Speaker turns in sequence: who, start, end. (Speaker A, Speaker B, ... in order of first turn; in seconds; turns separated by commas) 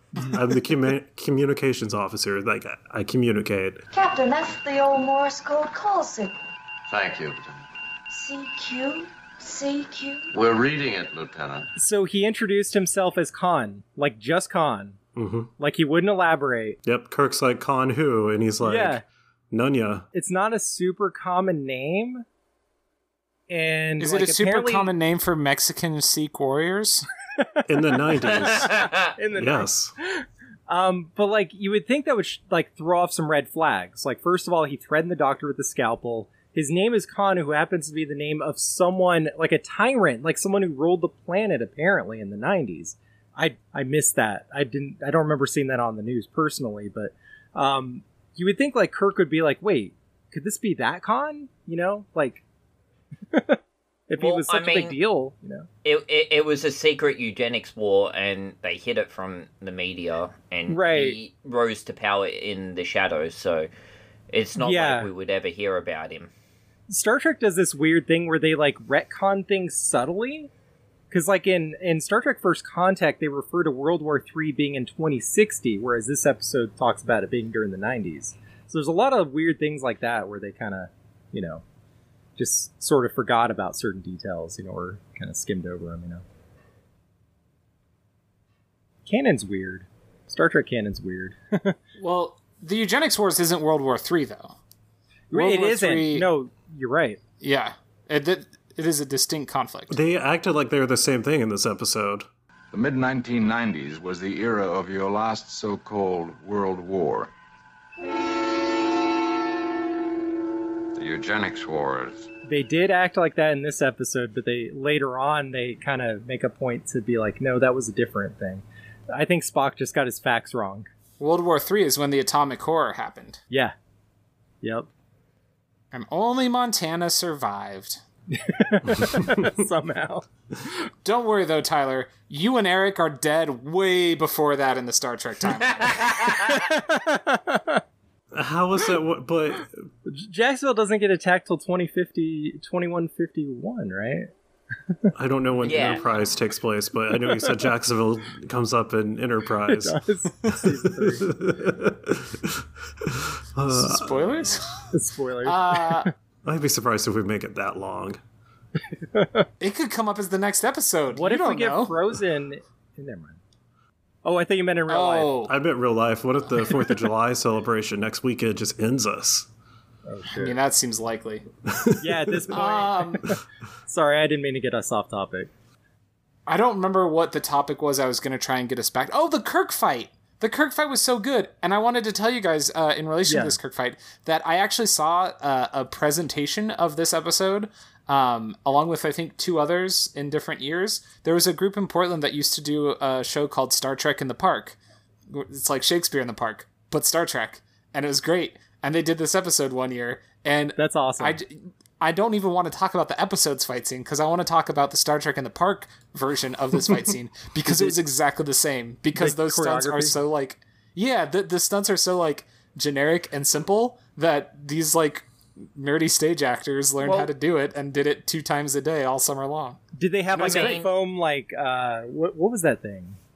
Speaker A: 0.2-3.8, Speaker B: 3.9-6.5, Speaker C: 6.9-7.6, Speaker B: 8.1-10.3, Speaker C: 10.3-11.7, Speaker D: 11.8-15.0, Speaker A: 15.2-15.5, Speaker D: 15.6-16.8, Speaker A: 16.8-20.1, Speaker D: 18.6-19.0, Speaker D: 20.1-22.2, Speaker D: 23.5-24.9, Speaker E: 24.0-27.1, Speaker A: 27.7-29.9, Speaker D: 28.2-52.4, Speaker F: 28.3-29.1, Speaker D: 53.3-55.7, Speaker F: 54.2-55.0, Speaker F: 55.8-63.7, Speaker D: 60.7-61.2, Speaker F: 64.3-66.3, Speaker D: 64.6-65.1, Speaker D: 66.9-70.5, Speaker D: 71.1-81.6, Speaker D: 82.4-86.2, Speaker D: 89.1-91.8, Speaker E: 92.0-94.5, Speaker D: 95.3-97.2, Speaker E: 95.3-96.3, Speaker E: 97.4-100.0, Speaker A: 99.9-102.3, Speaker G: 102.7-107.3, Speaker G: 111.0-111.9, Speaker C: 111.0-112.1, Speaker D: 112.5-120.9, Speaker E: 121.2-123.4, Speaker D: 123.5-123.7, Speaker D: 124.6-124.9, Speaker E: 125.9-128.0, Speaker D: 128.3-130.7, Speaker E: 131.0-136.4, Speaker D: 136.0-137.8, Speaker A: 138.3-139.8, Speaker D: 140.1-144.3, Speaker A: 145.1-154.6, Speaker F: 145.6-146.0, Speaker D: 147.2-147.5, Speaker D: 149.7-151.4, Speaker E: 153.7-154.8, Speaker D: 154.9-156.1, Speaker E: 155.4-156.1, Speaker A: 156.4-158.2, Speaker D: 159.0-159.5, Speaker E: 159.6-161.9, Speaker D: 161.1-163.4, Speaker D: 164.2-165.3, Speaker E: 164.9-165.5, Speaker A: 165.4-169.5, Speaker D: 170.1-170.6, Speaker E: 170.3-171.4, Speaker A: 171.7-172.5, Speaker D: 172.0-175.5, Speaker E: 172.5-173.3, Speaker E: 176.5-194.8, Speaker D: 183.3-183.6, Speaker E: 195.3-219.8, Speaker D: 200.8-201.4, Speaker D: 207.7-207.9, Speaker D: 209.2-210.2, Speaker F: 217.0-217.3, Speaker D: 219.9-223.2, Speaker E: 220.3-220.8, Speaker F: 220.3-220.9